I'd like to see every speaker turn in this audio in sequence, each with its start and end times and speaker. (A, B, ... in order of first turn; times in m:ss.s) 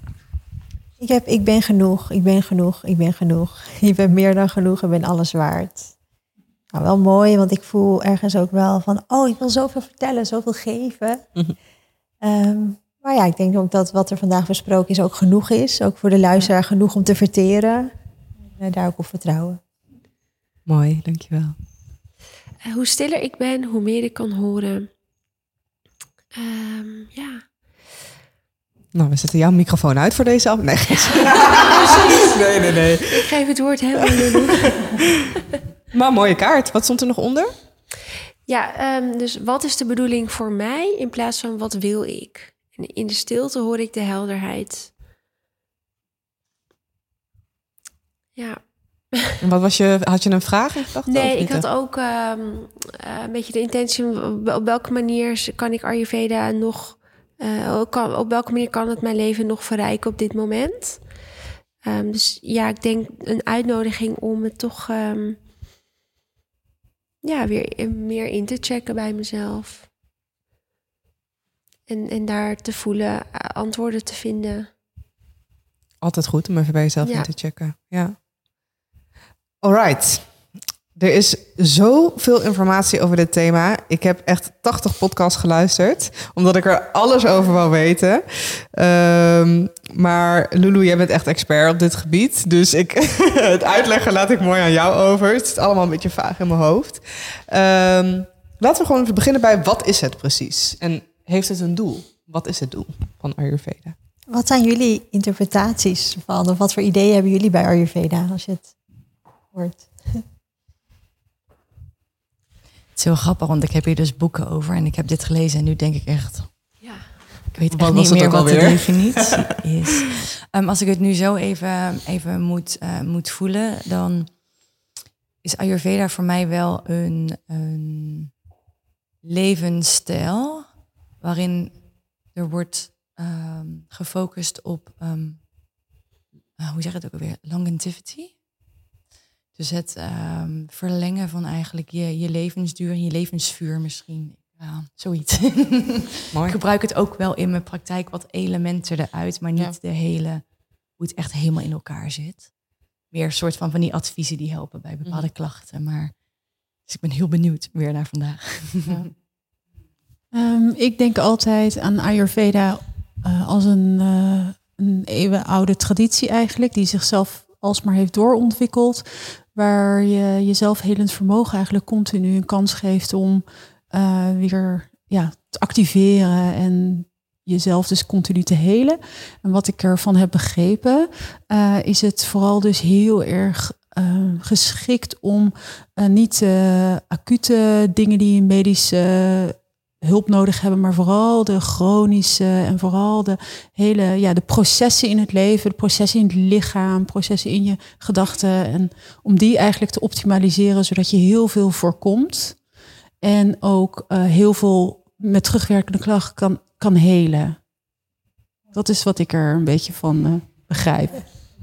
0:01.0-0:05.9 A
0:06.7-0:11.3 A
0:12.2-0:17.9 A
0:18.6-0:19.6 A
0:20.6-0:21.5 B
0:22.6-0:24.9 C
0:26.3-0:27.6 C
0:28.9-0:33.3 B
0:31.1-0:32.4 C
0:33.0-0:34.9 C
0:34.1-0:35.1 B
0:35.9-0:37.5 B
0:38.4-0:44.9 C
0:48.3-0:49.4 C
0:49.4-0:51.6 B
0:51.1-1:01.1 C
1:01.8-1:05.4 C
1:07.2-1:09.9 C
1:11.9-1:14.7 C
1:16.0-1:18.2 B
1:17.0-1:17.3 C
1:19.6-1:43.9 B
1:44.3-1:48.7 A
1:49.5-1:50.2 A
1:53.0-1:56.9 D
1:56.8-1:57.2 C
1:57.5-2:04.4 D
1:57.7-1:59.3 B
2:05.4-2:08.4 D
2:09.2-2:16.0 D
2:16.6-2:18.4 D
2:19.5-2:39.1 D
2:26.3-2:26.6 B
2:40.3-3:22.6 E
3:23.2-3:27.6 E
3:28.7-3:31.3 E